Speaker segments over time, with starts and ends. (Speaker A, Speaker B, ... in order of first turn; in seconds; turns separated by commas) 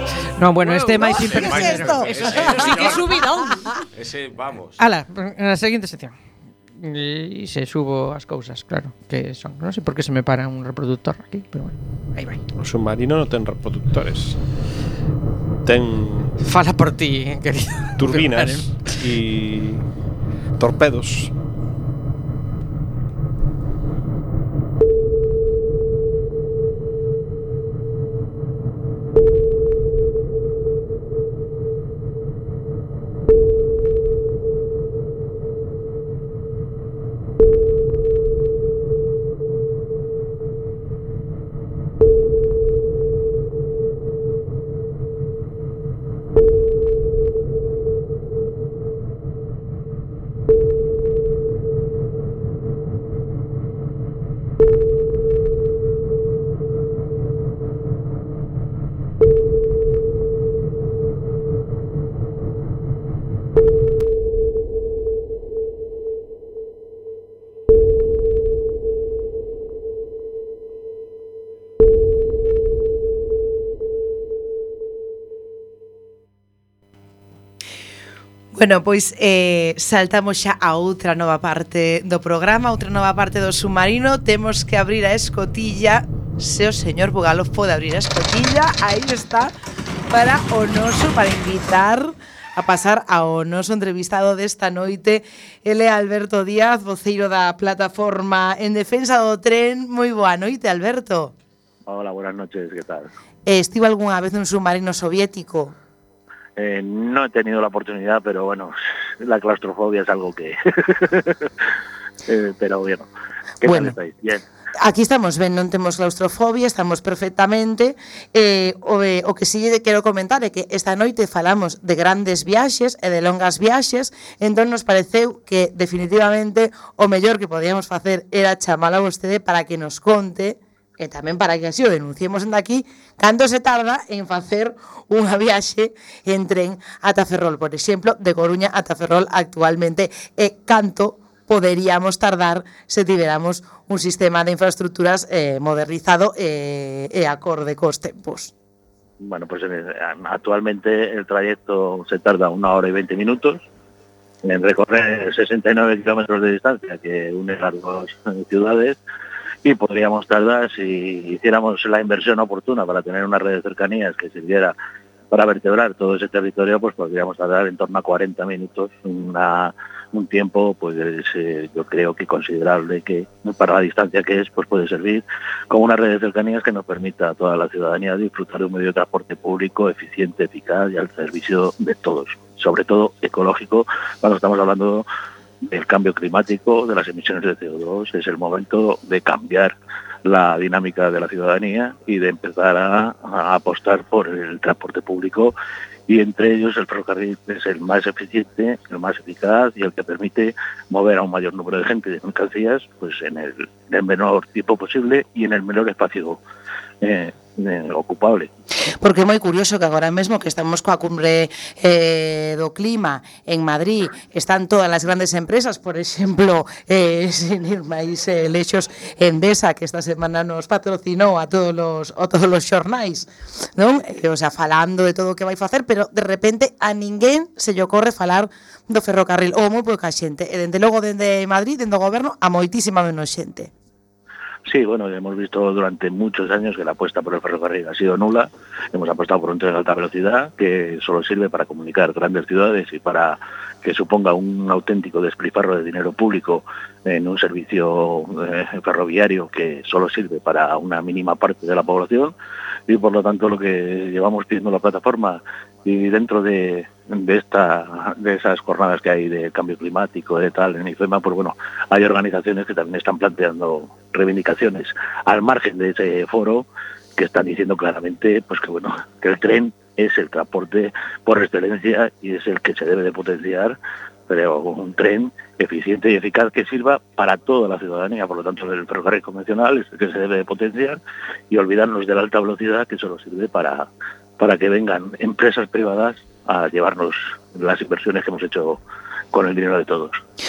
Speaker A: 0.4-2.1, Speaker B: 0.8-3.6, Speaker C: 1.0-3.0, Speaker D: 1.1-3.0, Speaker D: 4.0-4.8, Speaker A: 4.8-6.2, Speaker A: 6.8-12.4, Speaker E: 12.6-14.4, Speaker E: 15.7-16.4, Speaker A: 16.4-19.0, Speaker E: 18.0-19.9, Speaker E: 20.6-21.3, Speaker C: 78.5-89.5, Speaker C: 90.1-101.3, Speaker F: 101.9-103.1, Speaker C: 103.5-105.8, Speaker F: 106.6-111.5, Speaker F: 112.3-113.1, Speaker F: 113.6-114.4, Speaker C: 113.7-114.0, Speaker C: 114.8-148.5, Speaker F: 149.2-153.7, Speaker F: 154.4-159.0, Speaker F: 159.6-164.8, Speaker F: 165.3-185.1, Speaker F: 185.7-189.7, Speaker F: 190.2-195.5, Speaker F: 196.1-206.4, Speaker F: 207.0-208.5, Speaker C: 209.0-233.7, Speaker F: 234.7-252.3, Speaker F: 252.9-273.8, Speaker F: 274.3-281.0, Speaker F: 281.5-283.9, Speaker F: 284.4-288.8, Speaker F: 289.3-290.2